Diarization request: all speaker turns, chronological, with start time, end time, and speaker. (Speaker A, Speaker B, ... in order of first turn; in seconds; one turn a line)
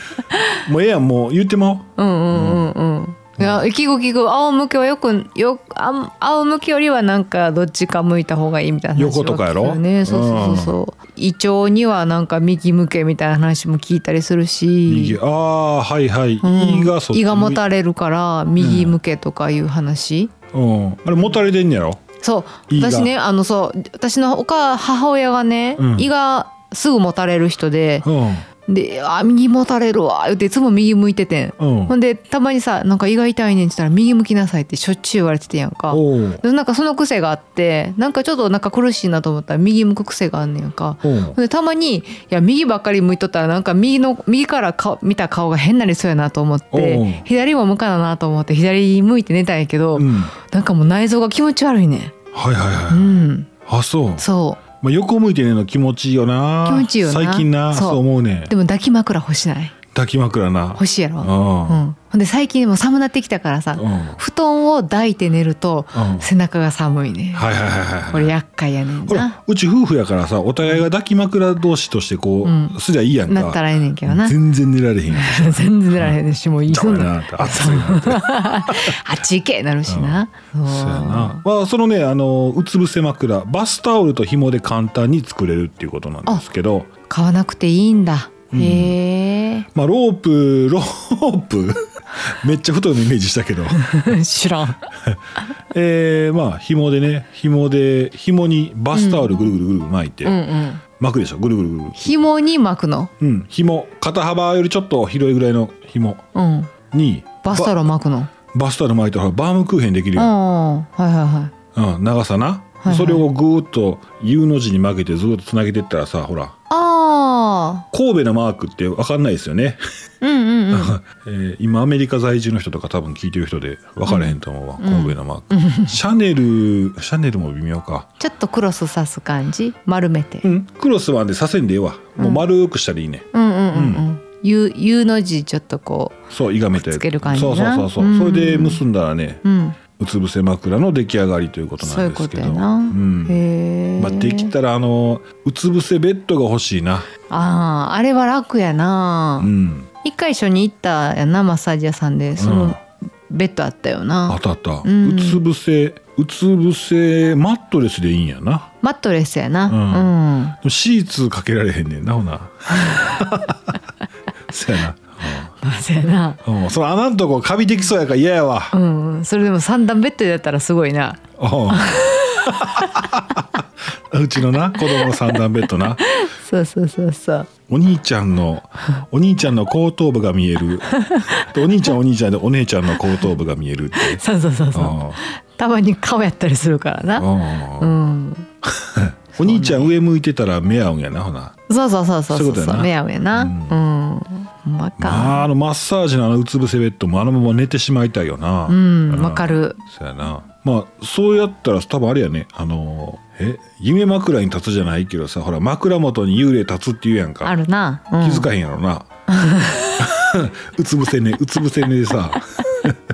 Speaker A: 0.3-0.6
Speaker B: 0.6-2.7
Speaker A: 2.0-15.2
Speaker B: 9.0-10.8
Speaker B: 14.9-17.6
Speaker A: 16.4-20.3
Speaker B: 18.6-19.0
Speaker B: 20.5-22.0
Speaker A: 22.2-28.1
Speaker B: 22.7-23.1
Speaker B: 25.8-26.1
Speaker B: 28.0-28.5
Speaker A: 28.6-52.2
Speaker B: 31.6-31.9
Speaker B: 35.9-36.4
Speaker B: 41.0-41.4
Speaker B: 46.7-47.2
Speaker B: 50.0-50.3
Speaker B: 52.3-54.2
Speaker A: 52.9-53.5
Speaker A: 54.2-54.6
Speaker B: 54.8-58.5
Speaker A: 56.7-59.8
Speaker B: 59.9-61.8
Speaker A: 60.8-67.5
Speaker B: 63.8-64.2
Speaker B: 65.9-66.3
Speaker B: 67.3-68.3
Speaker A: 68.1-69.4
Speaker B: 69.1-79.0
Speaker A: 72.4-74.4
Speaker A: 75.1-81.4
Speaker B: 79.9-86.9
Speaker A: 87.1-89.7
Speaker B: 88.5-89.0
Speaker B: 89.7-94.2
Speaker A: 93.8-94.8
Speaker B: 95.7-100.4
Speaker A: 98.9-99.5
Speaker A: 100.2-100.8
Speaker B: 101.0-102.0
Speaker A: 102.0-103.1
Speaker B: 103.2-106.2
Speaker A: 106.3-106.7
Speaker B: 106.9-107.8
Speaker A: 107.4-108.3
Speaker B: 108.5-110.3
Speaker A: 110.2-111.5
Speaker B: 111.8-116.5
Speaker A: 112.8-113.3
Speaker A: 116.7-117.9
Speaker B: 117.9-119.8
Speaker A: 120.2-121.0
Speaker B: 120.7-128.1
Speaker A: 124.1-126.0
Speaker A: 128.2-130.5
Speaker B: 130.4-134.0
Speaker A: 132.2-132.4
Speaker A: 133.3-138.8
Speaker B: 136.3-139.4
Speaker A: 139.4-139.8
Speaker B: 139.9-143.4
Speaker A: 141.8-144.5
Speaker B: 144.0-147.1
Speaker A: 147.3-149.5
Speaker B: 149.4-149.9
Speaker A: 150.0-155.4
Speaker B: 152.4-152.8
Speaker B: 154.3-158.7
Speaker A: 158.8-160.6
Speaker B: 159.7-163.8
Speaker A: 162.7-163.2
Speaker B: 164.5-165.5
Speaker A: 165.6-166.4
Speaker B: 166.4-168.7
Speaker A: 168.7-173.2
Speaker B: 171.4-176.0
Speaker A: 174.8-175.4
Speaker A: 176.0-177.5
Speaker B: 177.7-184.2
Speaker A: 180.9-181.4
Speaker A: 183.9-188.5
Speaker B: 184.7-185.2
Speaker B: 187.2-188.0
Speaker B: 188.7-191.6
Speaker A: 189.4-189.9
Speaker A: 191.7-195.5
Speaker B: 192.3-193.8
Speaker B: 195.0-207.6
Speaker A: 198.7-199.8
Speaker A: 207.4-208.5
Speaker B: 208.2-209.1
Speaker A: 209.3-210.1
Speaker B: 210.0-213.0